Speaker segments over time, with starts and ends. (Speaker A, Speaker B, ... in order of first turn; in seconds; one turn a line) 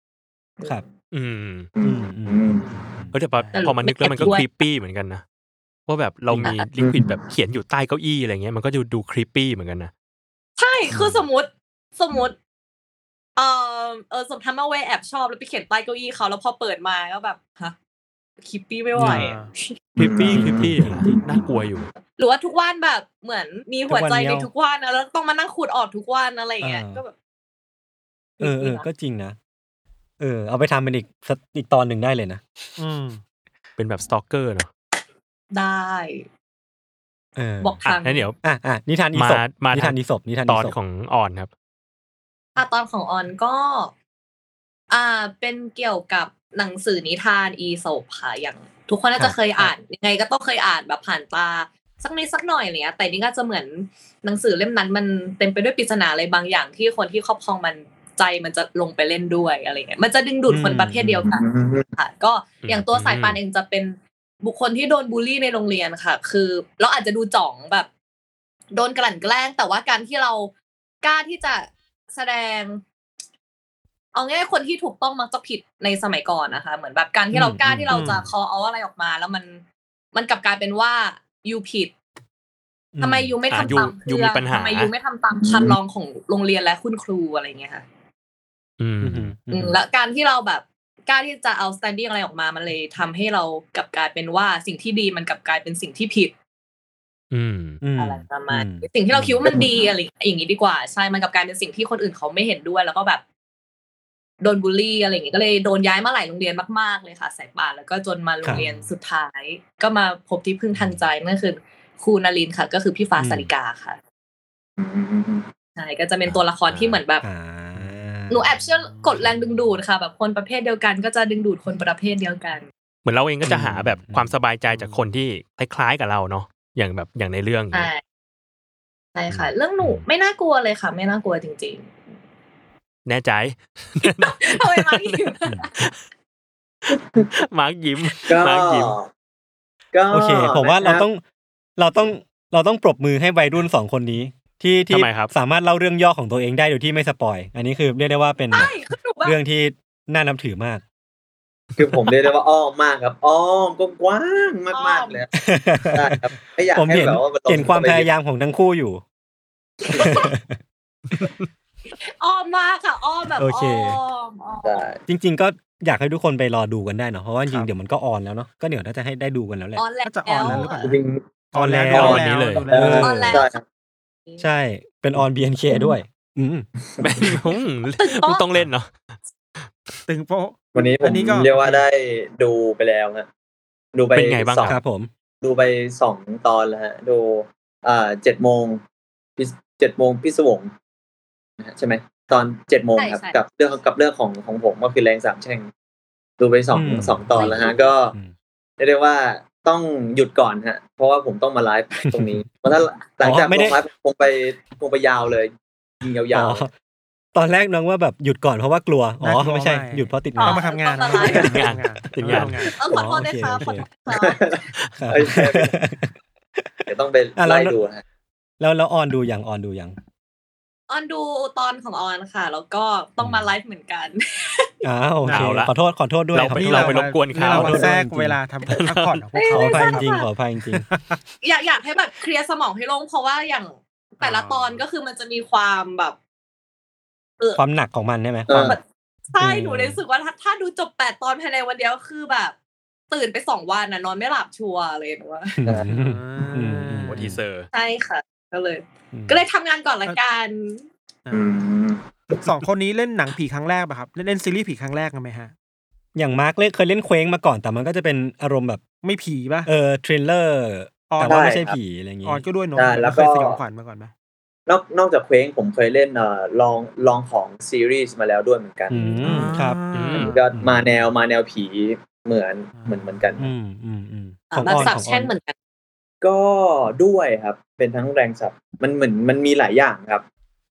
Speaker A: 1.1-1.7
Speaker B: 1.8-2.8
Speaker C: 1.8-3.1
Speaker A: 3.1-5.2
Speaker D: 3.5-4.5
Speaker A: 5.9-9.9
Speaker B: 6.8-7.2
Speaker D: 10.6-12.3
Speaker C: 10.9-11.2
Speaker D: 13.4-17.8
Speaker D: 18.4-19.8
Speaker C: 19.0-19.3
Speaker E: 19.0-19.5
Speaker B: 20.0-21.5
Speaker A: 20.0-21.9
Speaker C: 20.2-21.1
Speaker D: 22.2-27.1
Speaker C: 23.9-24.5
Speaker C: 26.6-27.0
Speaker D: 28.4-28.9
Speaker C: 28.4-29.4
Speaker C: 30.2-32.4
Speaker E: 32.8-33.2
Speaker A: 33.8-34.7
Speaker D: 35.5-36.3
Speaker C: 37.4-37.8
Speaker D: 37.6-38.3
Speaker A: 37.9-38.4
Speaker C: 38.4-40.8
Speaker A: 39.1-41.5
Speaker D: 42.6-43.9
Speaker D: 44.9-67.9
Speaker C: 49.2-49.7
Speaker C: 60.5-61.3
Speaker B: 61.2-61.9
Speaker A: 62.6-63.4
Speaker D: 68.8-70.5
Speaker D: 71.0-72.8
Speaker D: 74.1-79.6
Speaker C: 77.3-78.2
Speaker E: 77.9-78.2
Speaker D: 80.1-81.9
Speaker C: 82.9-83.3
Speaker D: 83.0-87.8
Speaker A: 83.5-84.9
Speaker B: 85.4-85.8
Speaker A: 88.8-89.3
Speaker C: 89.0-89.8
Speaker D: 89.5-96.3
Speaker A: 97.3-97.8
Speaker C: 97.8-99.5
Speaker D: 98.0-103.2
Speaker B: 99.5-99.9
Speaker D: 104.4-114.0
Speaker E: 108.5-108.9
Speaker C: 113.2-113.5
Speaker B: 114.8-115.5
Speaker D: 115.8-117.2
Speaker A: 116.7-117.0
Speaker C: 117.2-118.4
Speaker D: 118.3-122.7
Speaker E: 118.8-119.7
Speaker A: 123.0-127.9
Speaker C: 123.5-124.4
Speaker E: 124.7-125.0
Speaker D: 127.7-128.0
Speaker D: 129.2-131.9
Speaker C: 129.3-130.0
Speaker A: 133.1-135.9
Speaker D: 134.2-135.7
Speaker B: 136.9-137.3
Speaker A: 137.5-138.9
Speaker B: 138.3-139.1
Speaker B: 139.9-141.1
Speaker C: 140.1-141.2
Speaker C: 141.8-148.7
Speaker A: 144.9-145.3
Speaker D: 148.5-149.4
Speaker C: 149.2-150.8
Speaker B: 151.8-155.3
Speaker D: 154.7-155.2
Speaker C: 155.4-156.2
Speaker B: 155.9-158.1
Speaker C: 156.8-159.0
Speaker D: 159.9-160.3
Speaker C: 159.9-160.6
Speaker D: 162.2-164.8
Speaker C: 163.4-164.0
Speaker B: 164.6-165.0
Speaker C: 165.1-169.8
Speaker D: 169.8-170.8
Speaker E: 170.0-171.0
Speaker B: 170.5-171.3
Speaker E: 171.5-173.3
Speaker C: 171.6-173.4
Speaker B: 171.9-173.6
Speaker A: 171.9-172.7
Speaker D: 173.0-173.6
Speaker C: 174.4-176.7
Speaker B: 176.8-177.4
Speaker A: 177.0-178.9
Speaker D: 178.0-178.4
Speaker E: 180.1-181.8
Speaker B: 180.7-183.3
Speaker B: 183.9-184.8
Speaker A: 184.1-184.7
Speaker C: 184.7-185.1
Speaker B: 185.4-188.8
Speaker B: 189.4-190.7
Speaker B: 191.6-195.7
Speaker D: 193.0-193.4
Speaker B: 196.4-198.2
Speaker C: 196.7-198.3
Speaker D: 197.3-197.9
Speaker B: 198.8-206.7
Speaker C: 202.1-202.4
Speaker C: 203.2-203.8
Speaker C: 206.3-206.7
Speaker C: 207.3-210.7
Speaker E: 209.2-212.8
Speaker D: 210.4-211.5
Speaker C: 211.2-213.9
Speaker A: 211.4-212.7
Speaker D: 212.8-214.4
Speaker B: 214.1-215.8
Speaker C: 215.0-217.8
Speaker B: 216.9-218.0
Speaker C: 218.6-220.0
Speaker D: 220.9-224.7
Speaker C: 223.2-223.5
Speaker C: 224.8-228.4
Speaker E: 225.2-225.7
Speaker A: 225.3-225.7
Speaker A: 226.3-227.9
Speaker E: 226.5-230.0
Speaker A: 228.7-229.2
Speaker D: 229.3-230.3
Speaker C: 229.5-230.9
Speaker E: 230.7-231.2
Speaker D: 231.4-236.2
Speaker E: 234.2-234.8
Speaker C: 237.6-238.8
Speaker B: 238.5-238.8
Speaker D: 238.6-242.6
Speaker C: 239.4-240.0
Speaker D: 243.1-245.6
Speaker C: 245.6-247.4
Speaker E: 245.9-247.3
Speaker A: 247.1-247.7
Speaker D: 247.7-250.9
Speaker C: 249.1-249.4
Speaker B: 251.3-252.4
Speaker E: 252.4-255.5
Speaker C: 256.1-258.8
Speaker E: 259.0-259.7
Speaker C: 259.7-262.4
Speaker E: 261.1-261.5
Speaker B: 261.2-261.8
Speaker E: 262.2-264.1
Speaker B: 262.8-263.6
Speaker B: 264.7-269.5
Speaker C: 268.9-269.8
Speaker E: 269.2-270.6
Speaker A: 269.9-270.4
Speaker B: 270.1-273.5
Speaker E: 272.7-273.1
Speaker C: 273.4-275.3
Speaker D: 274.5-275.6
Speaker B: 274.6-274.9
Speaker B: 276.2-280.2